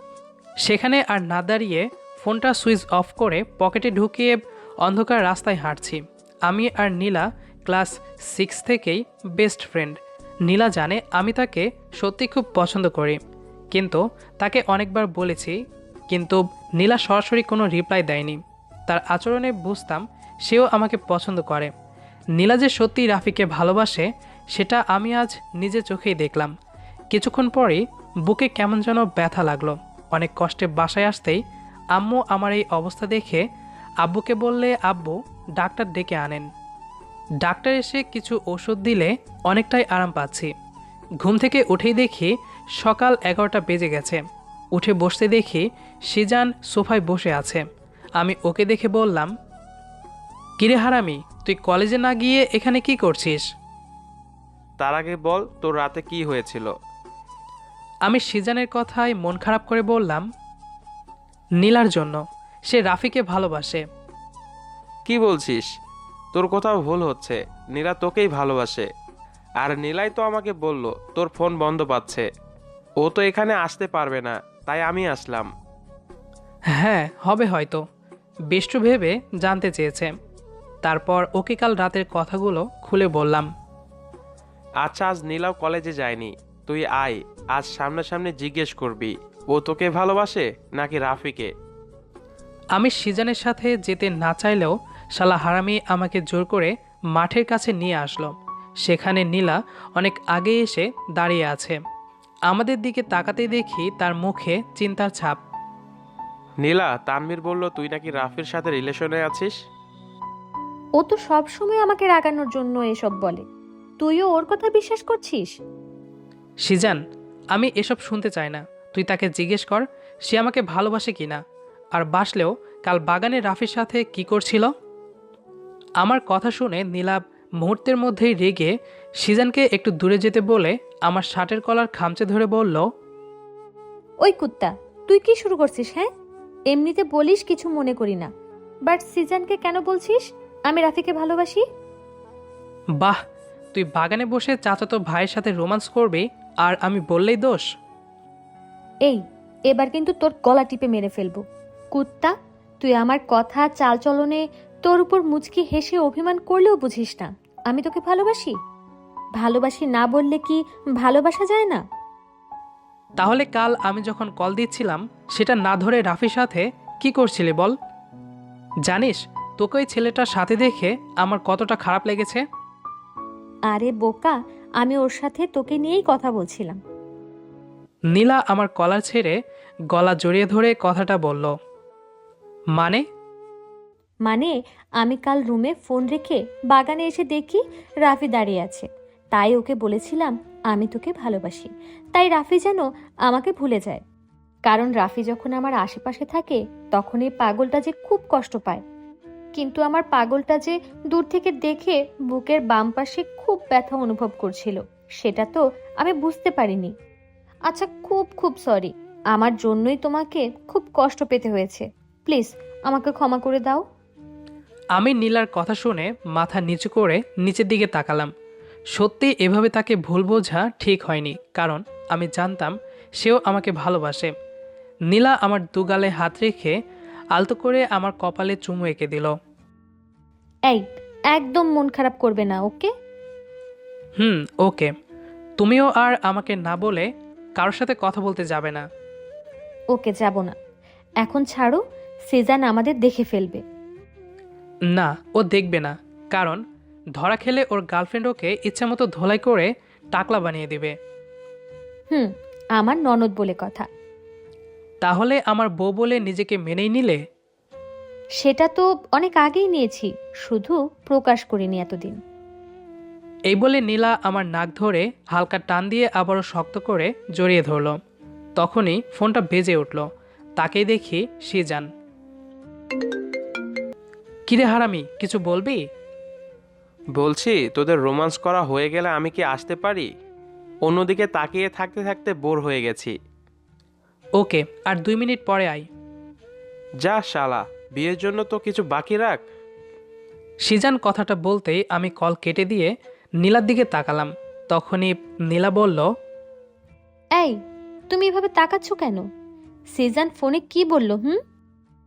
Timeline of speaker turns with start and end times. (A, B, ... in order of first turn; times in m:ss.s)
0:00.6-0:13.2 A
0:13.7-0:15.6 A
0:16.1-0:21.7 A
0:22.4-0:26.5 A
0:27.1-0:31.4 A
0:31.9-0:33.4 A
0:34.0-0:36.5 A
0:37.4-0:40.5 A
0:41.2-0:47.6 A
0:48.2-0:49.3 A
0:50.6-0:53.4 A
0:54.8-0:56.7 B
0:58.0-1:00.3 A
1:01.6-1:03.8 A
1:05.0-1:05.7 B
1:06.3-1:08.9 B
1:09.6-1:12.3 B
1:13.0-1:15.5 B
1:16.8-1:17.8 A
1:18.5-1:20.1 A
1:20.8-1:23.5 A
1:24.8-1:31.5 B
1:32.7-1:41.8 A
1:42.5-1:45.4 A
1:46.6-1:49.5 B
1:51.0-1:53.4 C
1:54.0-1:55.6 C
1:56.6-1:57.0 A
1:57.5-2:01.4 A
2:01.9-2:04.7 A
2:06.0-2:12.8 A
2:14.2-2:16.1 C
2:16.7-2:18.3 C
2:18.9-2:21.6 C
2:23.7-2:27.6 A
2:29.0-2:38.6 C
2:39.4-2:41.8 C
2:43.2-2:47.7 A
2:48.8-2:52.4 A
2:53.7-2:56.8 C
2:58.1-2:59.3 A
2:59.9-3:01.5 A
3:02.7-3:03.0 A
3:04.2-3:14.0 C
3:14.6-3:18.8 C
3:19.5-3:26.9 C
3:27.7-3:33.8 C
3:34.9-3:38.3 A
3:38.9-3:44.3 A
3:45.1-3:46.8 A
3:47.3-3:49.3 A
3:50.7-3:52.9 C
3:54.2-3:54.9 A
3:55.6-3:58.8 A
3:59.9-4:00.6 C
4:01.2-4:03.6 C
4:04.9-4:06.6 A
4:07.2-4:10.9 A
4:12.1-4:13.8 C
4:15.0-4:17.2 A
4:18.4-4:22.2 C
4:23.5-4:28.0 A
4:28.6-4:30.0 A
4:30.6-4:31.9 A
4:34.5-4:35.8 A
4:37.2-4:40.1 B
4:40.8-4:43.1 B
4:44.4-4:45.8 A
4:47.0-4:49.4 B
4:50.6-4:56.0 A
4:58.1-4:59.2 C
4:59.9-5:01.4 C